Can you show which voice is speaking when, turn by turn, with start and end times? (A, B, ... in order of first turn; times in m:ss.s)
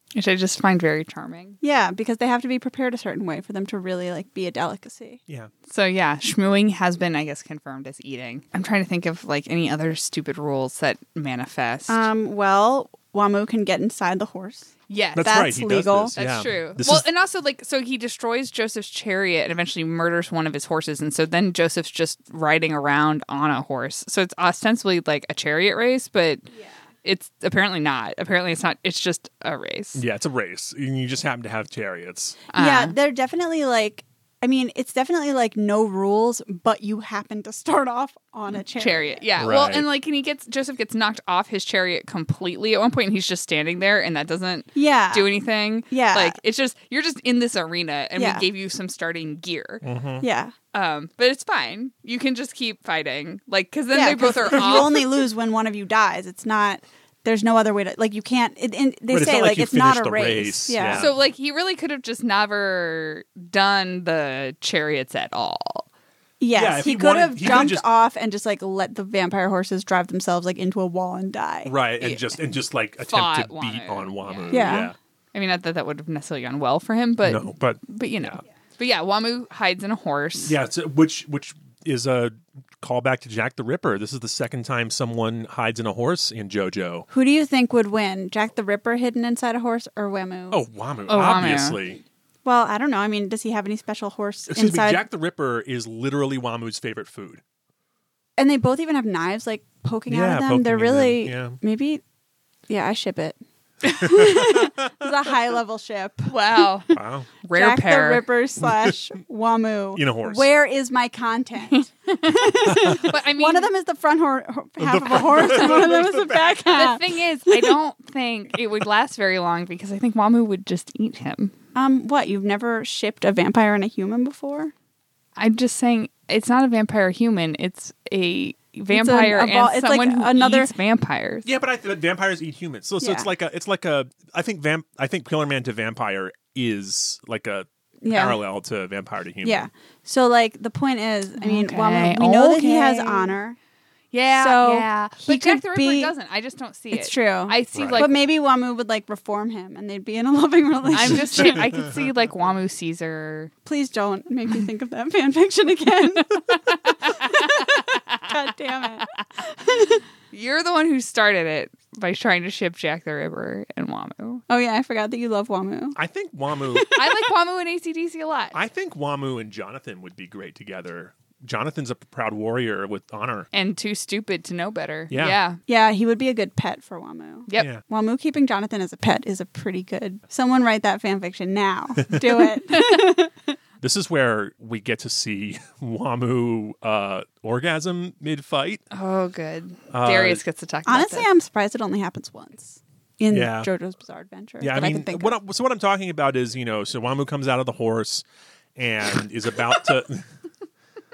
0:00.1-0:01.6 A
0:01.6-0:05.2 B
0:05.7-0:12.0 A
0:11.9-0:16.1 B
0:14.9-0:15.4 A
0:15.2-0:17.0 C
0:16.2-0:26.5 A
0:27.0-0:30.0 A
0:29.9-0:32.4 C
0:32.5-0:32.9 A
0:32.5-0:39.2 B
0:38.8-0:49.8 A
0:39.4-0:39.8 C
0:44.7-0:45.3 B
0:45.9-0:46.4 B
0:48.2-0:48.5 B
0:49.8-0:50.2 C
0:50.2-0:50.5 B
0:50.7-0:55.0 A
0:53.9-1:01.1 B
0:59.1-1:01.1 C
1:00.9-1:05.8 A
1:06.4-1:11.7 B
1:06.5-1:07.8 C
1:11.6-1:15.0 C
1:12.0-1:12.3 A
1:13.0-1:20.6 A
1:14.5-1:14.9 B
1:17.2-1:18.4 C
1:20.4-1:27.0 C
1:27.1-1:30.6 B
1:30.5-1:32.0 C
1:31.1-1:31.8 A
1:32.4-1:35.0 B
1:34.5-1:37.4 C
1:38.4-1:42.0 B
1:40.1-1:41.6 C
1:42.7-1:46.7 B
1:43.8-1:45.0 C
1:46.3-1:48.2 A
1:46.9-1:47.3 C
1:47.5-1:57.7 B
1:48.6-1:48.9 C
1:49.9-1:50.5 C
1:51.7-1:53.7 A
1:52.6-1:53.0 C
1:54.8-1:56.9 C
1:56.7-2:01.5 A
2:01.7-2:04.7 B
2:05.4-2:11.5 A
2:08.9-2:10.7 B
2:11.4-2:19.7 C
2:13.0-2:13.3 B
2:18.0-2:18.4 B
2:19.4-2:23.6 B
2:21.4-2:23.4 A
2:24.1-2:28.1 A
2:24.3-2:26.1 B
2:26.9-2:31.7 B
2:27.7-2:28.0 C
2:30.9-2:31.9 C
2:30.9-2:33.5 A
2:33.6-2:40.0 B
2:36.5-2:38.4 A
2:39.0-2:39.2 A
2:39.8-2:44.4 A
2:44.5-2:46.0 B
2:45.9-2:47.0 C
2:46.8-2:48.6 A
2:48.5-2:53.5 C
2:53.5-2:55.6 A
2:55.1-2:55.4 C
2:55.7-3:03.5 B
2:57.6-2:57.8 C
3:03.8-3:08.8 C
3:08.9-3:11.3 A
3:09.9-3:10.4 C
3:10.8-3:15.4 B
3:13.3-3:13.7 C
3:14.6-3:18.2 C
3:18.8-3:20.3 C